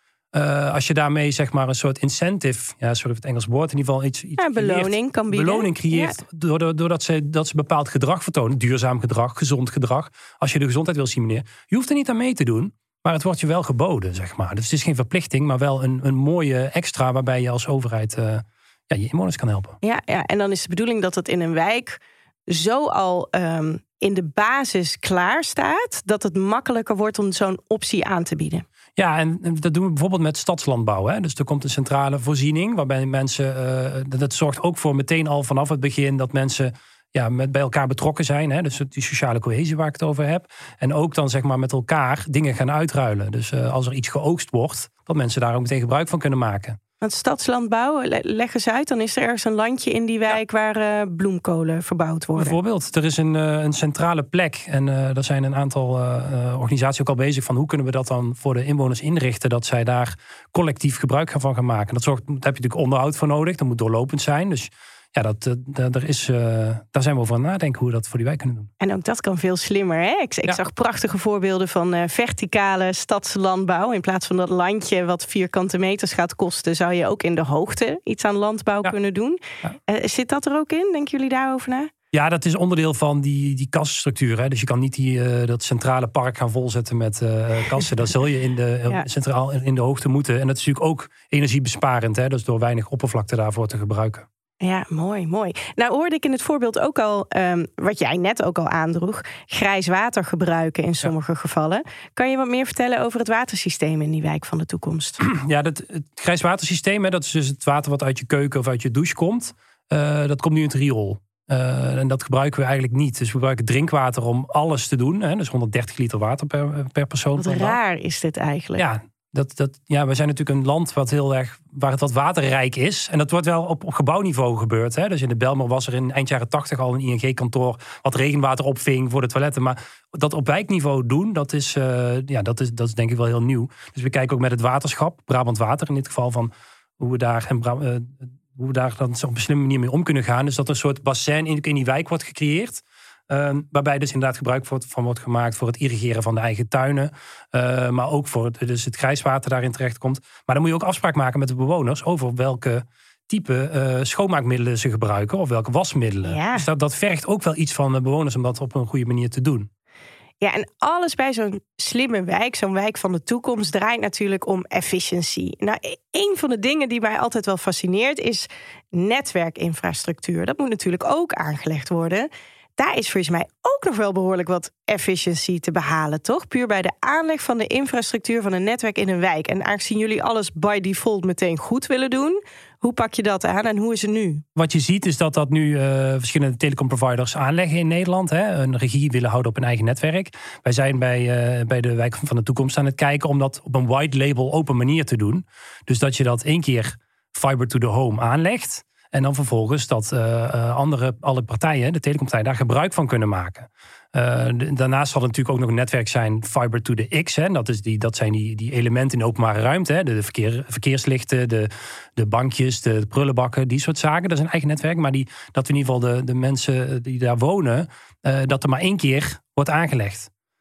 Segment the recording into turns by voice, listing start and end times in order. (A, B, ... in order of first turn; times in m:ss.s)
0:00.3-0:19.8 A
0:04.4-0:06.2 B
0:19.8-0:28.6 B
0:29.0-0:46.8 A
0:47.0-0:52.6 B
0:52.4-1:08.7 A
1:08.8-1:21.9 B
1:22.1-1:34.3 A
1:34.6-1:45.2 B
1:45.2-1:57.8 A
1:57.4-1:58.8 B
1:58.8-2:39.7 A
2:36.2-2:36.6 B
2:40.4-3:04.4 B
3:04.5-3:40.3 A